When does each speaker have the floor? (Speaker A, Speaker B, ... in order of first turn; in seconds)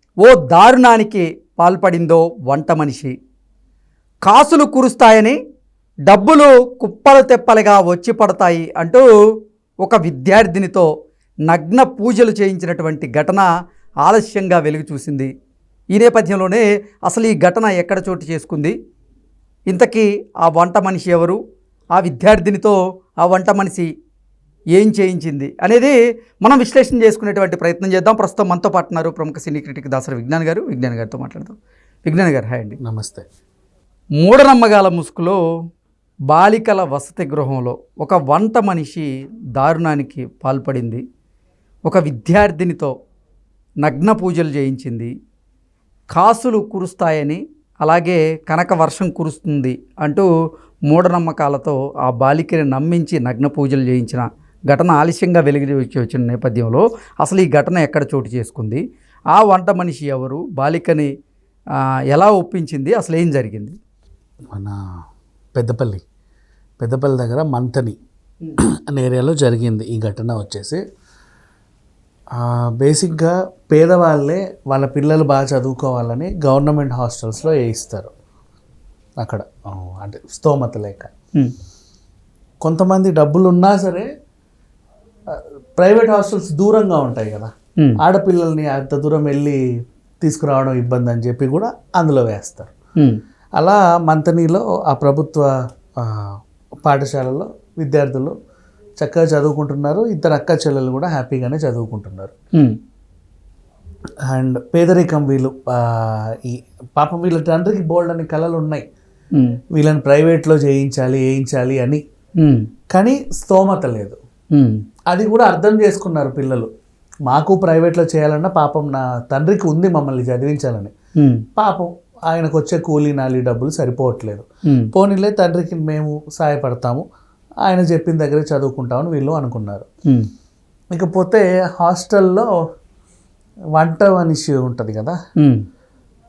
Speaker A: 0.2-3.1, 4.2-5.4, 6.1-9.0, 9.8-10.9, 11.5-13.5, 14.0-15.3, 15.9-18.7, 19.7-21.4, 21.9-23.9, 24.8-32.8, 34.2-35.4, 36.3-41.0, 41.9-42.9, 43.8-45.1, 46.1-50.3, 50.9-58.8, 59.3-61.1, 62.1-63.8, 112.4-112.7, 121.2-121.4
Speaker B: 32.8-33.2, 64.5-64.8, 65.5-66.0, 66.8-68.0, 68.9-70.8, 72.3-78.1, 79.2-81.1, 82.6-84.1, 85.3-89.6, 90.2-92.7, 93.6-98.3, 99.0-102.3, 104.3-108.8, 109.7-112.0, 112.9-114.2, 115.1-116.7, 117.3-120.9, 121.5-127.0, 127.7-129.9, 130.9-132.5, 133.8-135.2